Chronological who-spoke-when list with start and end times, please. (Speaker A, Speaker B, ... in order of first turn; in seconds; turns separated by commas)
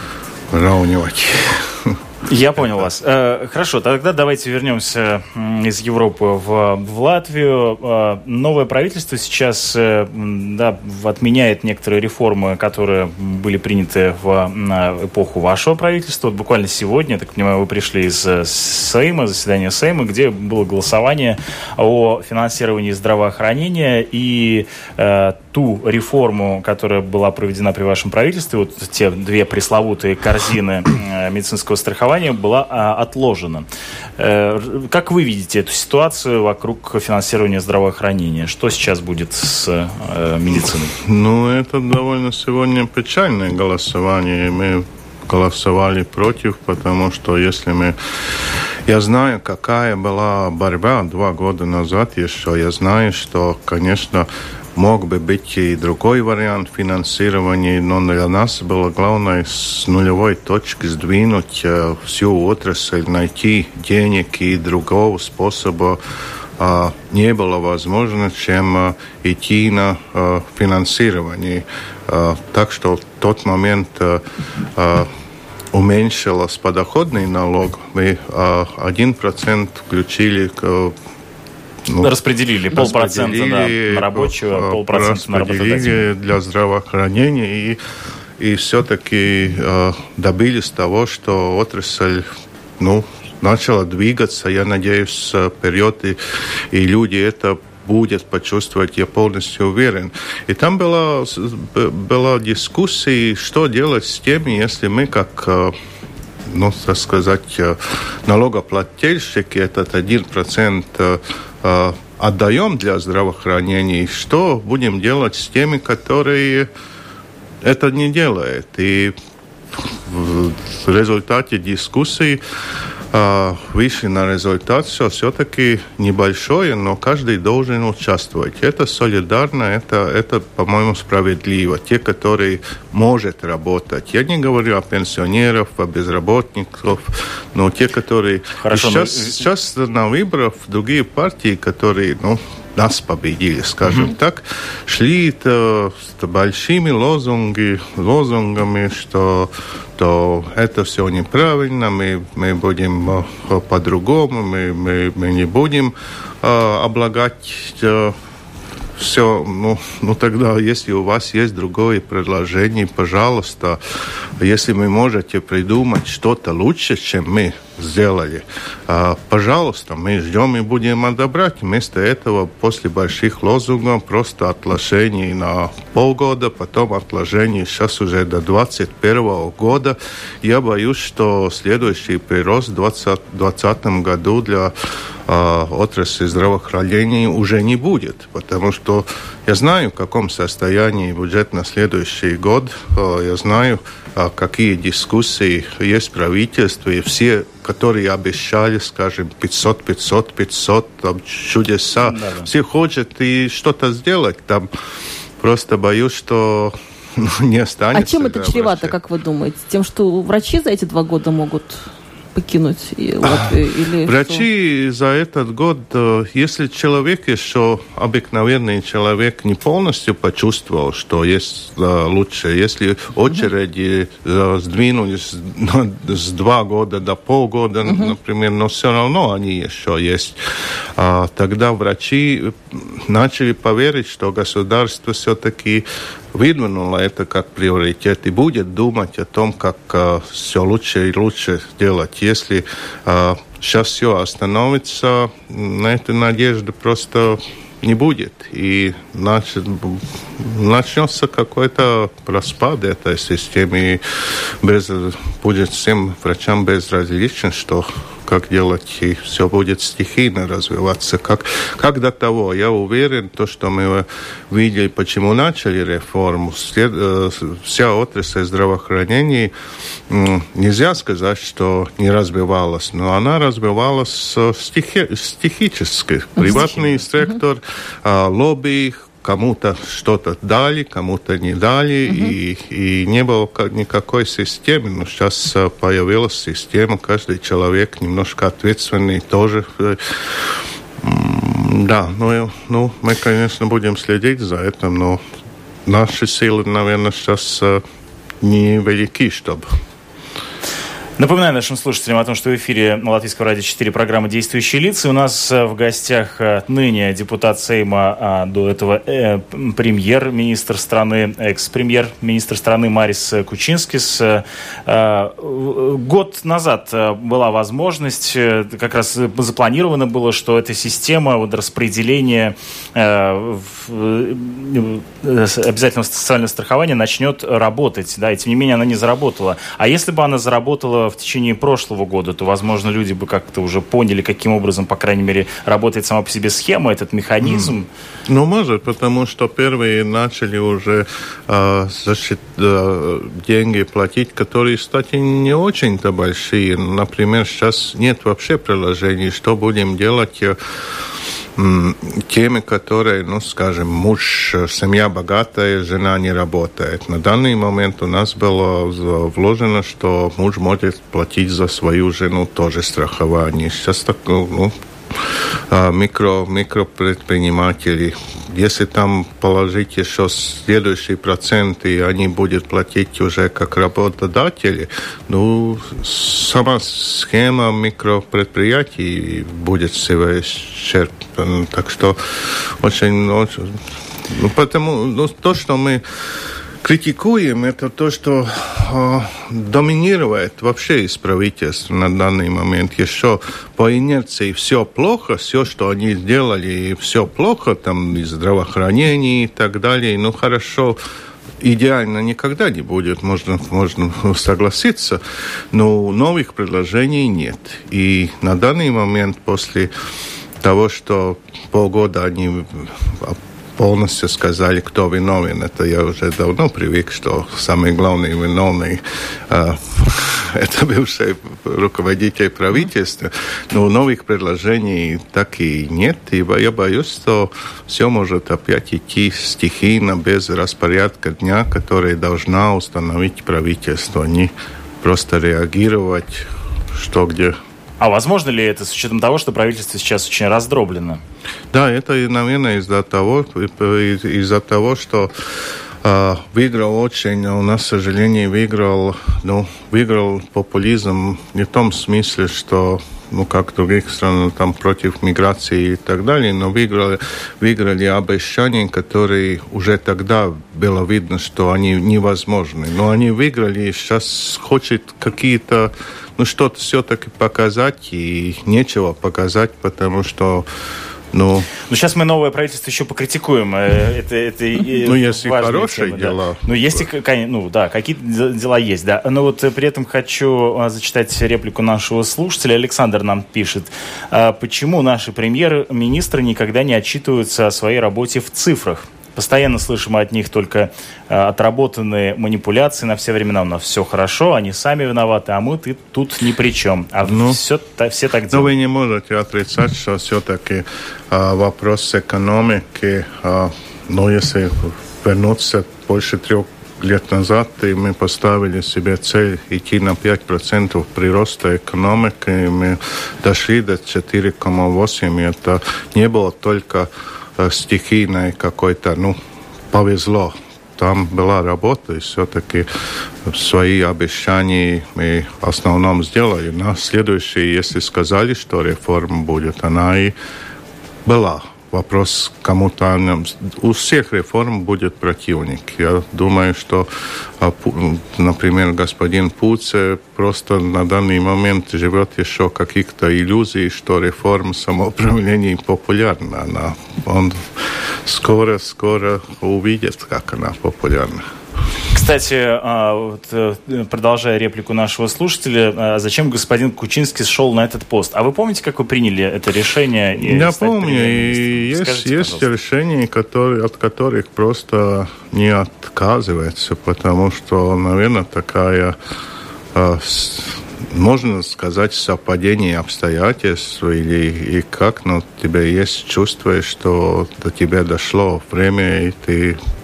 Speaker A: 0.5-2.0, Speaker B: 2.2-33.7, Speaker B: 34.2-40.9, Speaker A: 41.0-66.0, Speaker A: 66.6-74.2, Speaker A: 74.8-75.1, Speaker A: 75.7-80.9, Speaker A: 81.9-82.1, Speaker B: 82.0-86.0, Speaker A: 82.7-87.8, Speaker A: 88.4-92.3, Speaker A: 92.8-105.7, Speaker A: 106.5-116.7, Speaker A: 117.6-119.1, Speaker A: 119.8-122.4, Speaker A: 123.1-158.2, Speaker B: 138.6-139.4, Speaker A: 159.0-163.8, Speaker A: 164.4-184.7, Speaker A: 185.2-204.7, Speaker B: 202.0-202.5, Speaker A: 205.4-208.9, Speaker C: 207.9-211.8, Speaker C: 212.3-214.4, Speaker A: 213.2-230.4, Speaker C: 227.8-228.1, Speaker A: 230.9-269.5, Speaker A: 270.1-295.2, Speaker C: 276.4-276.8, Speaker C: 282.1-282.3, Speaker A: 295.9-297.8, Speaker A: 298.4-299.7, Speaker B: 301.2-337.9, Speaker A: 337.4-337.7, Speaker A: 338.3-350.6, Speaker A: 351.6-364.7, Speaker A: 365.7-386.0, Speaker A: 386.8-401.0, Speaker A: 401.6-405.2, Speaker A: 405.7-409.9, Speaker A: 410.6-437.6, Speaker B: 438.0-441.2, Speaker A: 441.7-445.3, Speaker A: 446.0-470.6, Speaker A: 471.3-471.7, Speaker B: 471.8-498.7, Speaker A: 475.0-477.1, Speaker A: 497.2-497.6, Speaker A: 498.5-519.4, Speaker A: 519.9-522.9, Speaker A: 523.4-530.3, Speaker A: 531.2-537.1, Speaker A: 537.6-551.4, Speaker B: 552.1-562.7, Speaker A: 560.4-569.1, Speaker A: 569.9-579.8